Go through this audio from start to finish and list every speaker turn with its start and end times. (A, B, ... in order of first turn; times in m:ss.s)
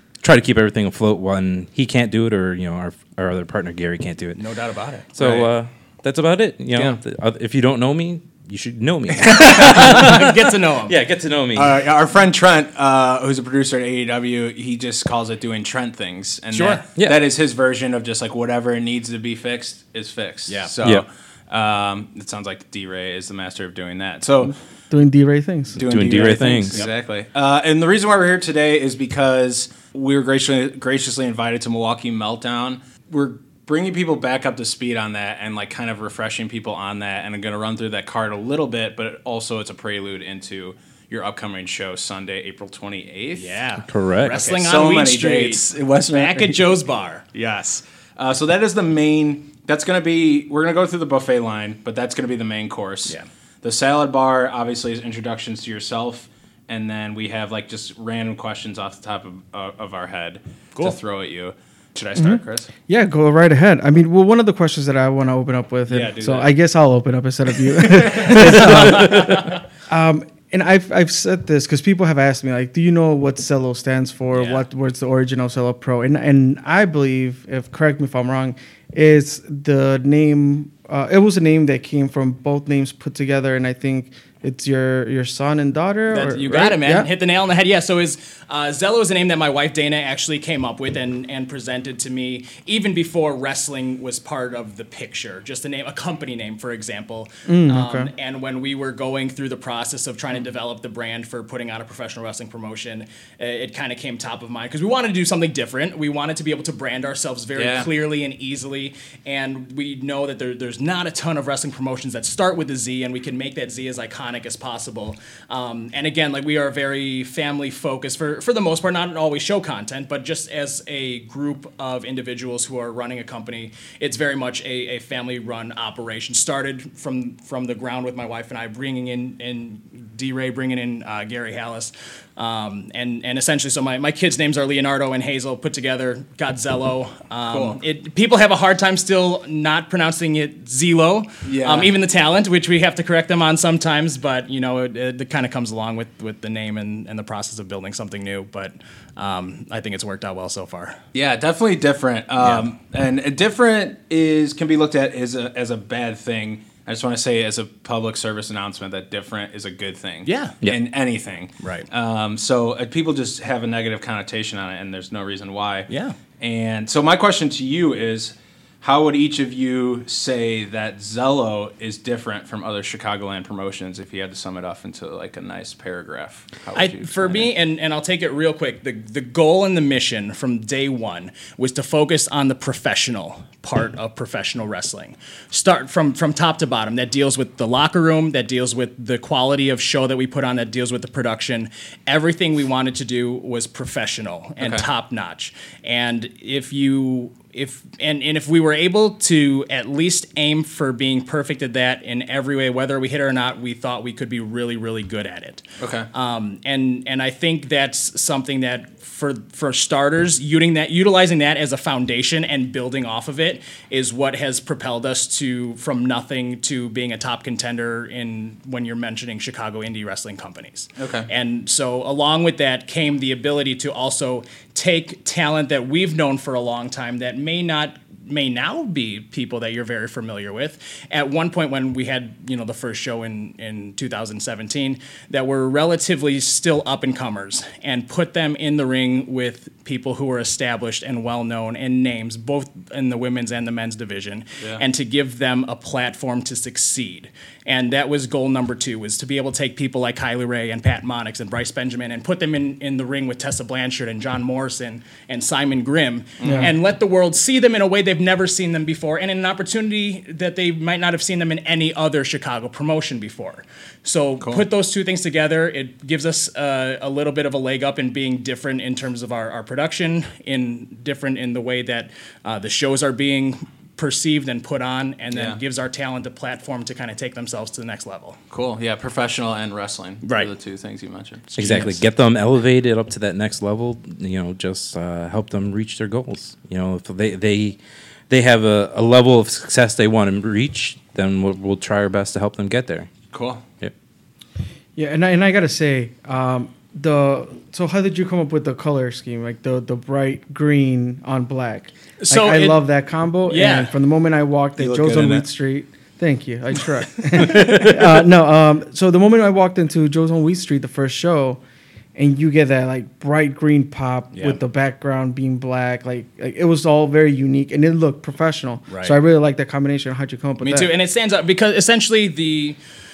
0:00.2-0:04.4 A
0:04.4-0:05.5 B
0:05.2-0:11.8 A
0:09.3-0:11.0 B
0:09.3-0:10.1 C
0:11.5-0:24.6 C
0:16.5-0:16.8 B
0:17.0-0:17.2 A
0:20.5-0:20.7 B
0:24.5-0:25.8 D
0:25.8-0:43.6 C
0:25.8-0:26.8 A
0:43.4-0:47.3 B
0:43.8-0:44.4 A
0:44.3-0:46.6 C
0:47.3-1:02.7 C
1:02.2-1:27.1 D
1:05.9-1:06.5 C
1:08.0-1:09.5 C
1:08.4-1:09.2 A
1:14.3-1:14.6 C
1:26.1-2:31.0 B
1:37.5-1:38.1 D
1:47.6-1:47.9 C
2:17.5-2:17.8 C
2:21.4-2:21.9 C
2:31.1-2:45.9 C
2:32.4-2:32.7 B
2:40.2-2:40.6 B
2:41.6-2:41.9 B
2:45.9-2:46.2 B
2:46.4-2:57.5 C
2:56.8-4:38.4 B
3:14.6-3:14.9 C
3:25.8-3:26.1 C
3:41.0-3:41.3 C
4:04.6-4:04.8 C
4:16.4-4:16.8 C
4:16.4-4:16.7 D
4:35.3-4:35.6 C
4:38.5-4:41.8 C
4:40.2-4:40.5 B
4:41.5-4:42.0 B
4:41.6-4:47.8 A
4:48.3-4:53.1 A
4:53.3-4:53.6 C
4:55.0-5:11.6 D
5:02.2-5:02.8 B
5:03.5-5:03.9 B
5:04.8-5:05.5 C
5:07.4-5:07.8 C
5:12.1-5:20.9 D
5:18.9-5:19.2 B
5:20.6-5:22.8 B